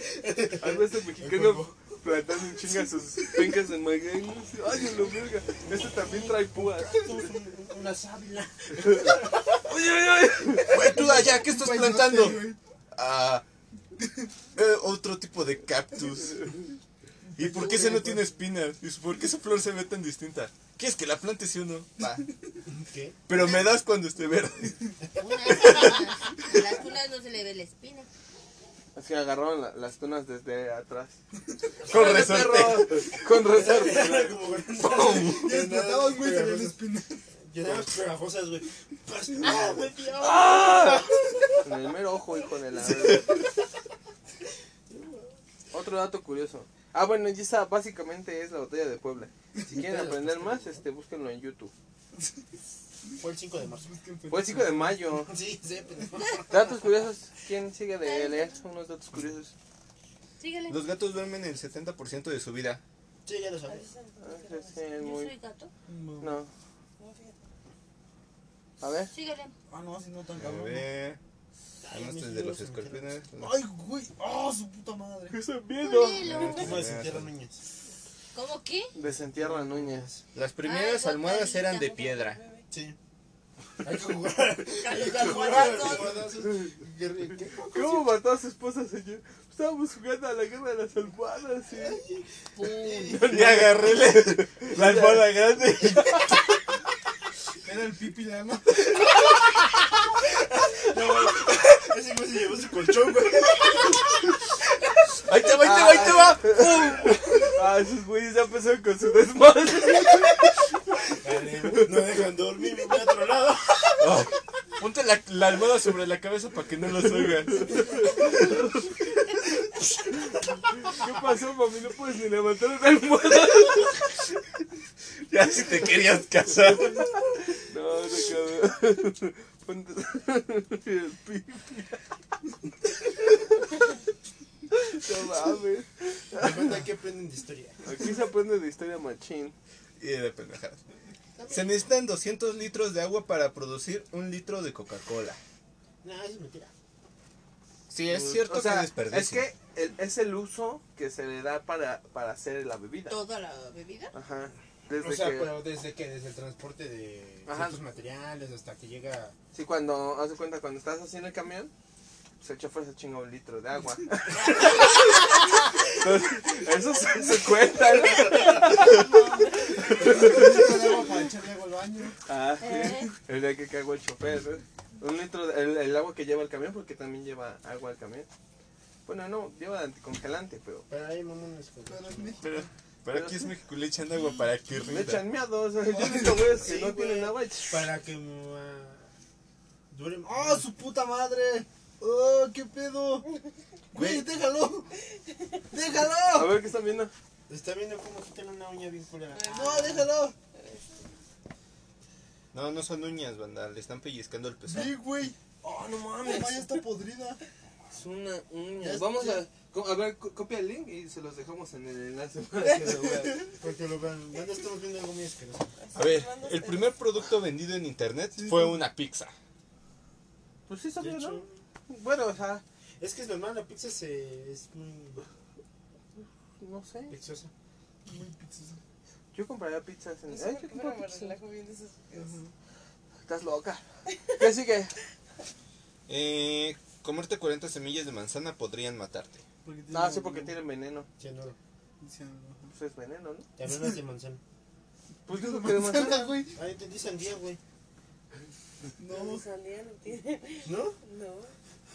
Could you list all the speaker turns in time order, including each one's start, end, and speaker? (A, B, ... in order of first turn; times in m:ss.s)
0:00.1-0:00.6 A
0:00.6-0:07.0 B
0:01.2-0:01.6 A
0:06.0-0:09.6 A
0:09.6-0:10.8 B
0:10.7-0:13.4 C
0:10.7-0:12.6 D
0:14.0-0:14.3 D
0:14.6-0:16.4 C
0:17.3-0:18.2 D
0:17.4-0:22.3 C
0:22.7-0:23.2 A
0:23.3-0:24.9 C
0:25.1-0:28.1 E
0:28.9-0:31.2 B
0:31.8-0:34.4 B
0:31.8-0:33.1 C
0:33.2-0:36.8 A
0:35.1-0:37.2 D
0:37.5-0:41.4 A
0:39.4-0:39.7 D
0:40.2-0:41.1 B
0:41.6-0:43.4 B
0:43.0-0:43.4 A
0:44.9-0:45.3 A
0:45.7-0:51.7 B
0:49.7-0:50.8 A
0:53.1-0:55.1 D
0:53.2-0:53.9 A
0:54.3-0:55.3 B
0:55.2-0:56.7 A
0:56.5-0:59.5 B
0:58.0-0:58.6 E
1:00.4-1:00.8 E
1:00.7-1:02.8 C
1:03.2-1:03.9 A
1:03.6-1:04.9 F
1:04.2-1:05.3 B
1:05.0-1:05.7 E
1:05.9-1:06.4 D
1:06.2-1:06.5 B
1:07.0-1:07.4 F
1:08.8-1:09.1 B
1:09.1-1:09.5 E
1:09.7-1:10.9 D
1:10.4-1:11.2 C
1:11.8-1:13.1 A
1:11.9-1:13.6 C
1:13.4-1:15.4 D
1:15.3-1:16.3 B
1:15.8-1:16.7 E
1:16.2-1:17.3 C
1:16.4-1:17.6 A
1:18.3-1:18.9 E
1:18.9-1:20.1 B
1:19.0-1:20.2 A
1:20.3-1:22.4 C
1:20.6-1:22.0 E
1:21.8-1:22.7 F
1:22.7-1:23.0 A
1:23.8-1:28.1 A
1:24.8-1:26.2 E
1:27.7-1:32.0 B
1:31.7-1:33.4 A
1:32.6-1:33.3 E
1:33.1-1:35.3 B
1:33.3-1:36.4 C
1:37.6-1:38.9 D
1:40.5-1:44.2 A
1:45.2-1:47.2 C
1:45.6-1:50.4 B
1:51.2-1:54.2 A
1:54.0-1:58.4 C
1:57.7-1:58.6 B
2:00.8-2:04.0 B
2:05.3-2:07.1 C
2:07.6-2:12.0 B
2:14.7-2:16.7 B
2:16.4-2:17.8 A
2:17.8-2:19.6 B
2:20.0-2:20.8 C
2:21.4-2:21.7 A
2:21.5-2:25.4 C
2:26.0-2:26.7 A
2:27.9-2:29.4 C
2:28.1-2:33.2 B
2:33.1-2:34.1 E
2:34.1-2:35.6 B
2:35.0-2:39.4 A
2:37.4-2:37.8 B
2:39.5-2:41.7 B
2:42.4-2:49.1 B
2:48.7-2:52.2 D
2:49.8-2:51.0 B
2:52.2-2:58.3 B
2:52.6-2:53.1 E
2:59.1-3:00.9 B
3:00.9-3:02.4 A
3:01.9-3:02.7 D
3:02.4-3:05.2 C
3:03.1-3:03.5 B
3:04.9-3:07.9 B
3:05.9-3:06.6 D
3:06.6-3:09.1 A
3:09.9-3:10.7 A
3:10.2-3:13.3 D
3:13.9-3:14.9 D
3:13.9-3:14.3 C
3:15.3-3:15.6 F
3:15.7-3:16.6 D
3:16.3-3:17.1 B
3:17.5-3:19.9 A
3:19.3-3:21.1 F
3:19.5-3:20.4 D
3:22.5-3:24.9 C
3:24.7-3:25.4 D
3:25.6-3:26.8 B
3:26.2-3:27.4 D
3:27.9-3:33.5 B
3:28.8-3:29.4 D
3:33.6-3:35.7 A
3:35.8-3:37.0 F
3:35.9-3:39.3 C
3:38.4-3:38.8 D
3:40.7-3:42.6 B
3:41.0-3:41.6 A
3:43.0-3:45.2 A
3:46.6-3:47.2 B
3:47.1-3:47.5 A
3:48.1-3:48.8 D
3:49.3-3:51.1 B
3:50.3-3:52.4 F
3:52.1-3:52.5 D
3:53.2-3:53.8 B
3:54.1-3:54.4 F
3:54.4-3:54.9 B
3:56.1-3:59.4 C
3:59.6-4:00.6 D
3:59.9-4:01.1 B
4:01.2-4:01.6 A
4:02.0-4:02.7 D
4:02.7-4:03.5 B
4:03.6-4:04.4 A
4:03.7-4:03.9 D
4:05.3-4:06.4 B
4:05.3-4:06.6 D
4:06.5-4:07.6 A
4:09.0-4:09.4 D
4:09.1-4:11.6 F
4:10.6-4:11.0 A